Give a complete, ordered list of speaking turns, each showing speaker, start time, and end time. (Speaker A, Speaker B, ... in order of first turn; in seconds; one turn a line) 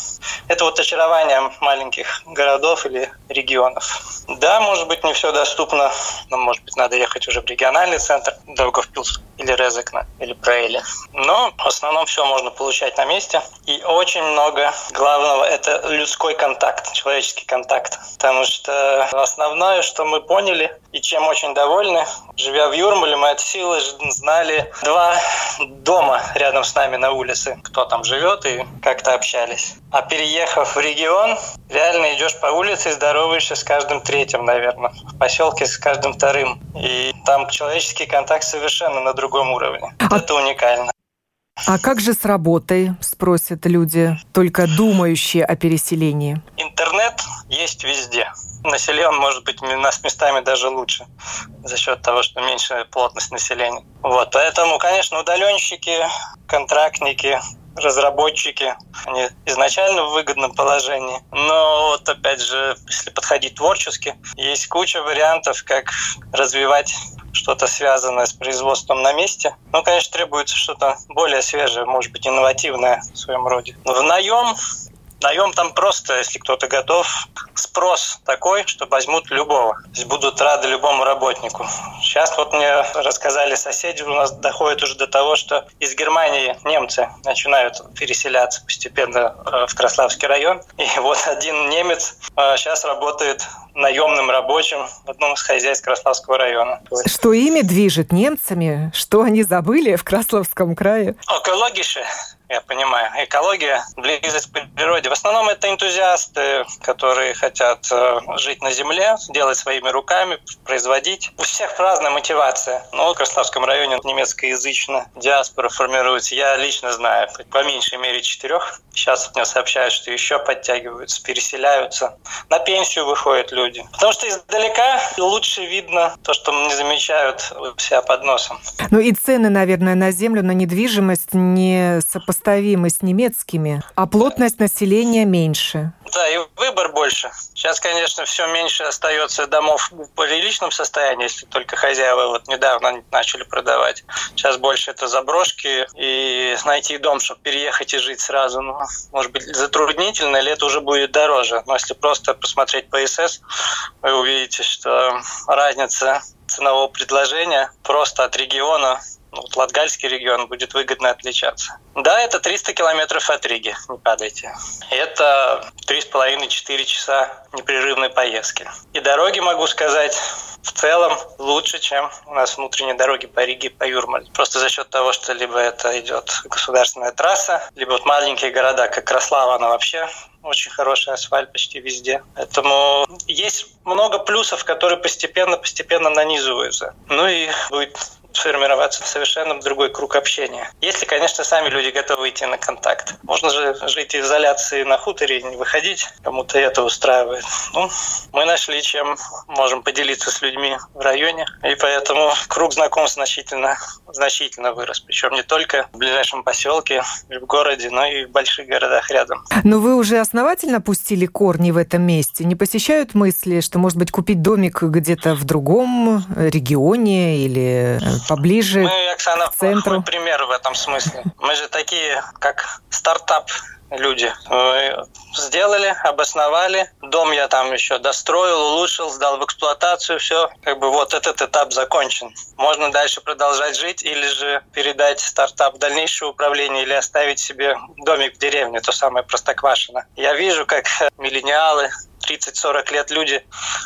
Speaker A: 0.5-40.9
Speaker B: 41.6-46.4
Speaker A: 46.6-51.1
Speaker A: 51.6-74.5
Speaker A: 75.2-97.1
Speaker B: 97.0-101.2
Speaker A: 101.3-128.6
Speaker B: 128.9-135.9
Speaker A: 136.1-153.4
Speaker A: 154.0-209.4
Speaker B: 209.6-218.9
Speaker A: 218.8-243.4
Speaker B: 219.5-220.1